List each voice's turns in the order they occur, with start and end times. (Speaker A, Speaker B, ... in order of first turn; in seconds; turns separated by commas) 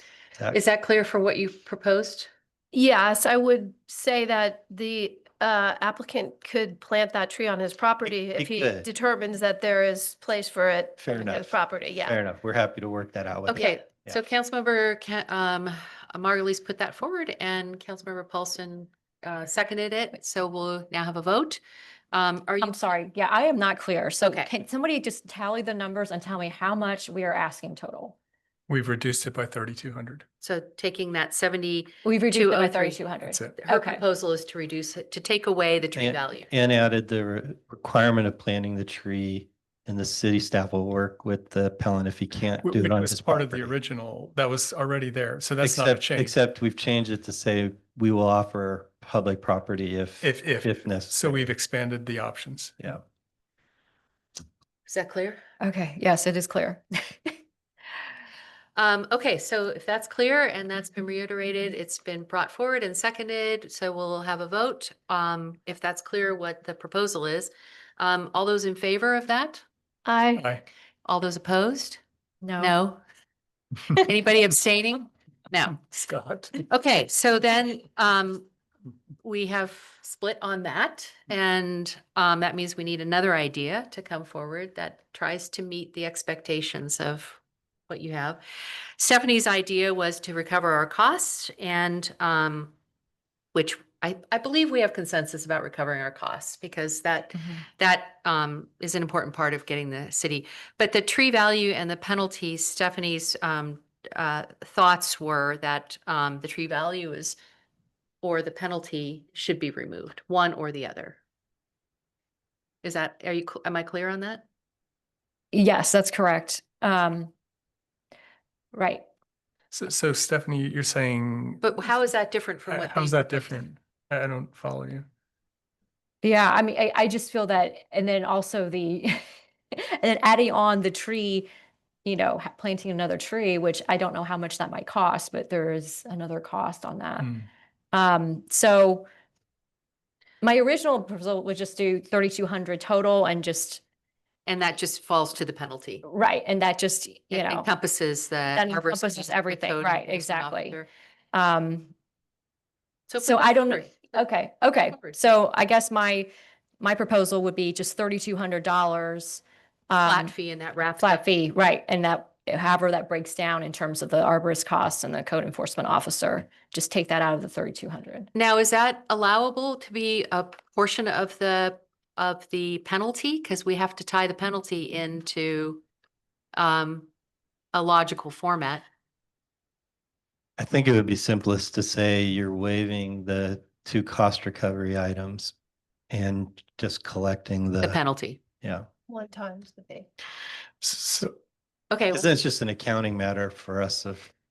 Speaker A: 0.5-2.3, Speaker B: 2.7-12.2, Speaker C: 8.2-8.9, Speaker C: 11.0-14.2, Speaker A: 13.5-21.6, Speaker A: 22.1-22.9, Speaker D: 22.6-28.1, Speaker A: 24.2-24.5, Speaker E: 28.7-30.2, Speaker A: 30.4-33.0, Speaker D: 32.0-34.0, Speaker E: 33.3-33.6, Speaker A: 33.6-36.5, Speaker C: 36.0-43.7, Speaker E: 42.6-46.3, Speaker C: 45.6-51.5, Speaker E: 50.2-52.8, Speaker A: 54.9-55.4, Speaker D: 55.6-57.4, Speaker A: 58.8-69.6, Speaker E: 70.4-70.6, Speaker A: 71.0-72.0, Speaker D: 72.4-72.7, Speaker A: 72.6-73.0, Speaker A: 74.0-75.8, Speaker E: 75.8-76.7, Speaker A: 76.7-78.5, Speaker A: 79.2-88.4, Speaker A: 89.0-92.7, Speaker A: 93.5-107.4, Speaker A: 108.2-111.2, Speaker A: 112.8-114.4, Speaker D: 115.5-117.3, Speaker D: 118.7-119.0, Speaker E: 119.7-121.7, Speaker A: 121.6-123.6, Speaker E: 122.7-125.1, Speaker D: 126.2-129.2, Speaker D: 129.8-131.5, Speaker D: 132.1-137.3, Speaker D: 137.9-139.1, Speaker D: 140.4-143.8, Speaker A: 144.5-146.0, Speaker D: 146.0-147.7, Speaker A: 147.3-150.9, Speaker D: 148.6-150.8, Speaker D: 151.3-151.9, Speaker A: 153.1-153.9, Speaker D: 153.2-160.3, Speaker A: 160.1-161.2, Speaker D: 161.0-168.3, Speaker A: 168.3-175.8, Speaker A: 176.6-177.1, Speaker A: 177.7-178.8, Speaker C: 180.6-185.5, Speaker C: 186.1-188.0, Speaker A: 187.8-188.4, Speaker C: 188.6-188.9, Speaker B: 189.1-190.1, Speaker E: 190.8-191.3, Speaker A: 191.9-192.3, Speaker C: 192.1-194.3